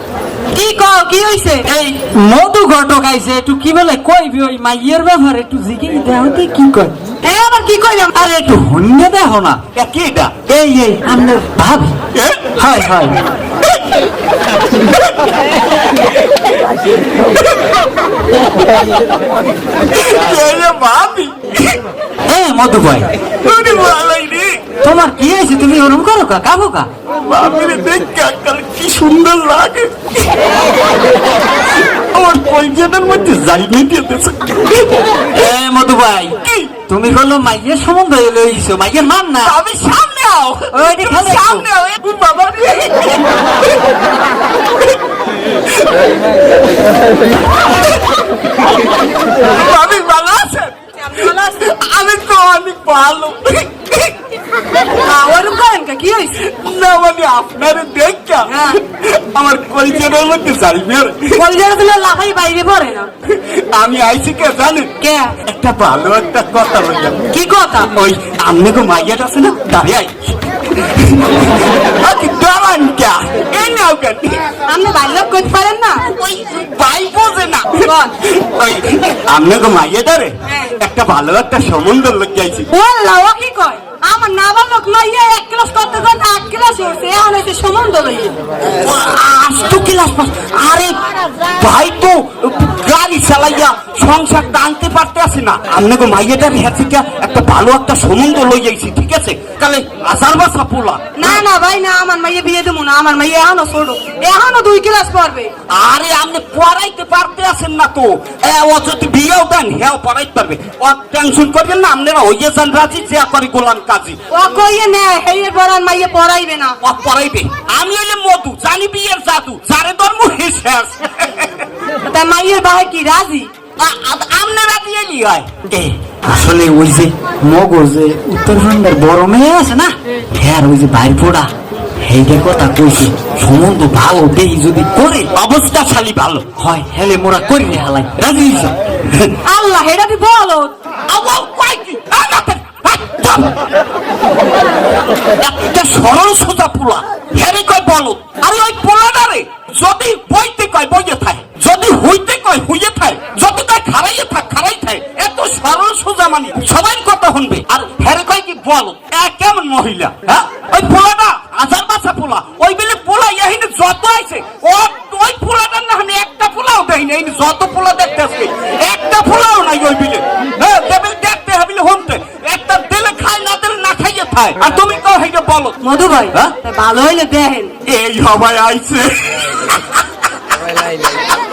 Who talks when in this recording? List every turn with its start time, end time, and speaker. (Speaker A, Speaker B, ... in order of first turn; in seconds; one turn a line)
Speaker A: 0.5-1.7
Speaker B: 1.7-6.9
Speaker A: 7.2-8.2
Speaker B: 8.1-9.6
Speaker C: 9.7-10.4
Speaker B: 10.5-12.0
Speaker C: 12.1-12.9
Speaker B: 12.6-13.2
Speaker C: 19.9-21.8
Speaker B: 22.3-23.1
Speaker C: 23.4-24.6
Speaker B: 24.8-26.9
Speaker C: 27.2-30.4
Speaker C: 31.9-35.0
Speaker B: 35.3-36.4
Speaker C: 36.4-36.7
Speaker B: 36.9-39.5
Speaker C: 39.4-43.8
Speaker B: 40.7-41.6
Speaker C: 45.7-45.9
Speaker C: 47.9-48.2
Speaker C: 49.5-54.1
Speaker A: 51.0-51.6
Speaker A: 55.0-56.4
Speaker C: 56.4-61.4
Speaker A: 58.5-58.8
Speaker A: 61.4-63.1
Speaker C: 63.2-64.9
Speaker A: 65.0-65.3
Speaker C: 65.4-67.2
Speaker A: 67.3-67.9
Speaker C: 67.9-74.4
Speaker A: 74.7-76.1
Speaker C: 76.0-82.7
Speaker A: 77.8-78.1
Speaker A: 80.5-80.8
Speaker A: 82.7-88.3
Speaker C: 88.8-91.0
Speaker C: 91.5-101.4
Speaker A: 101.2-105.5
Speaker C: 105.7-114.2
Speaker A: 114.3-116.8
Speaker C: 116.8-121.7
Speaker A: 122.0-123.5
Speaker C: 123.8-125.6
Speaker B: 125.7-135.3
Speaker C: 135.3-136.5
Speaker B: 136.6-138.7
Speaker C: 139.1-139.3
Speaker A: 139.4-140.7
Speaker C: 141.1-143.6
Speaker C: 145.4-175.8
Speaker A: 175.8-177.7
Speaker C: 177.8-180.0